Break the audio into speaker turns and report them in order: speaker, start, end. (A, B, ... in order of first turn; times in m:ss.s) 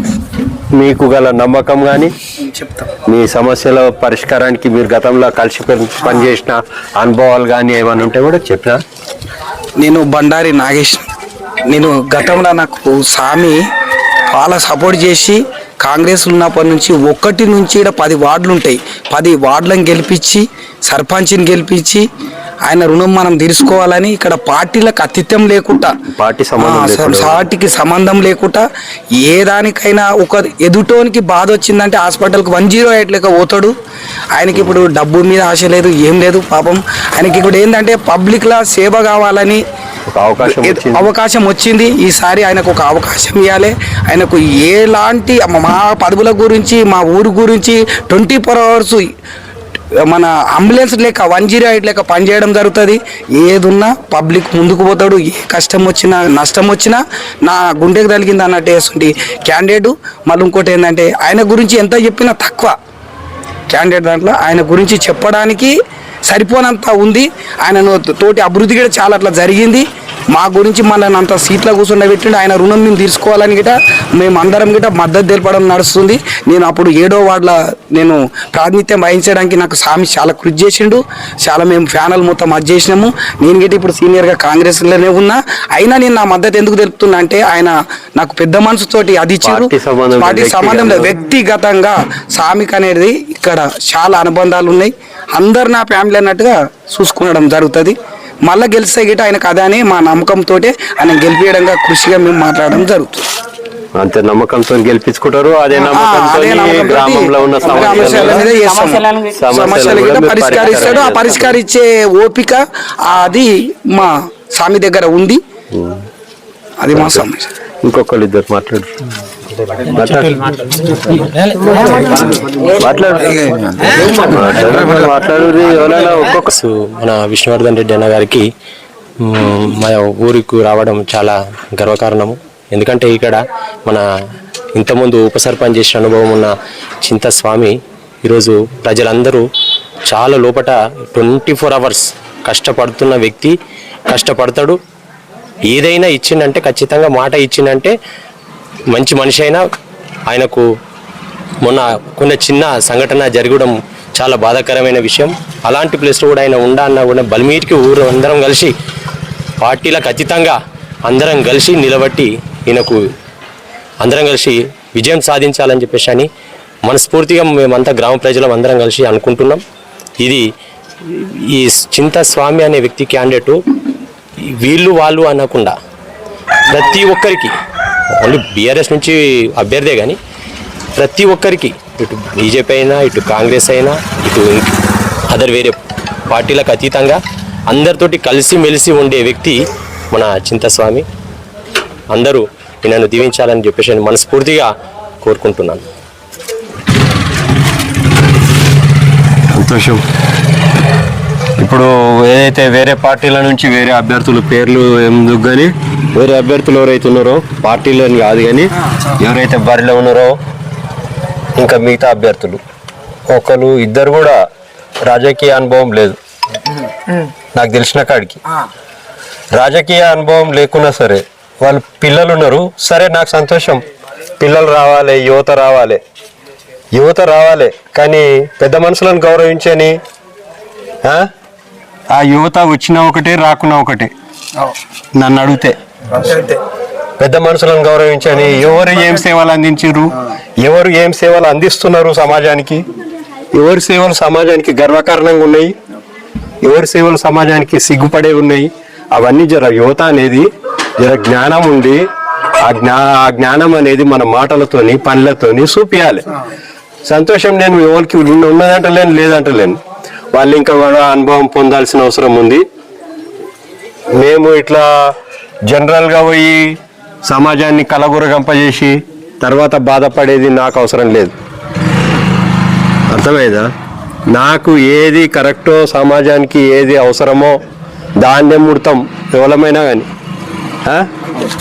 0:00.8-0:02.1 A
0:02.5-0:02.9 B
0:03.1-0:08.8 A
0:09.8-0:11.0 B
0:11.7-0:13.6 B
0:14.3-0:22.0 B
0:22.7-0:25.9 B
0:26.1-0:27.4 A
0:26.6-0:28.6 B
0:29.2-0:33.7 B
0:34.3-0:39.6 B
0:40.1-0:41.1 A
0:40.4-0:49.0 B
0:50.1-1:02.7 B
1:03.7-1:05.7 B
1:06.3-1:43.2 B
1:29.4-1:31.2 A
1:44.0-1:48.5 A
1:45.8-1:55.4 B
1:49.3-1:51.5 A
1:55.7-1:56.0 A
1:56.8-1:57.5 B
1:56.9-1:57.2 A
1:57.8-1:58.9 A
1:59.8-2:00.5 A
2:01.7-2:02.2 A
2:02.7-2:06.4 A
2:06.4-2:08.5 C
2:09.2-2:14.0 C
2:14.8-2:19.4 C
2:20.1-2:23.5 C
2:24.1-2:24.8 C
2:25.7-2:27.9 C
2:28.9-2:29.6 C
2:30.3-2:30.7 C
2:31.6-2:38.7 C
2:39.6-2:43.0 C
2:44.0-2:46.3 C
2:46.8-2:49.6 C
2:51.1-2:53.6 C
2:54.5-2:55.7 C
2:56.7-2:57.5 C
2:58.2-3:00.2 C
3:01.0-3:04.7 C
3:05.3-3:05.8 C
3:06.3-3:09.6 C
3:10.1-3:11.0 C
3:12.1-3:14.7 C
3:15.2-3:15.8 C
3:19.5-3:20.0 A
3:21.6-3:30.3 A
3:31.6-3:32.6 A
3:33.3-3:34.4 A
3:35.1-3:36.2 A
3:37.5-3:38.4 A
3:39.5-3:43.8 A
3:44.4-3:46.0 A
3:46.9-3:50.0 A
3:52.1-3:54.1 A
3:55.2-3:55.8 A
3:57.2-4:02.8 A
4:03.5-4:05.7 A
4:06.6-4:10.5 A
4:11.0-4:12.0 A
4:12.6-4:16.2 A
4:17.1-4:19.8 A
4:20.3-4:22.6 A
4:24.2-4:25.1 A
4:25.7-4:26.8 A
4:27.3-4:31.3 A
4:33.1-4:33.7 A
4:34.3-4:37.6 A
4:38.2-4:40.1 A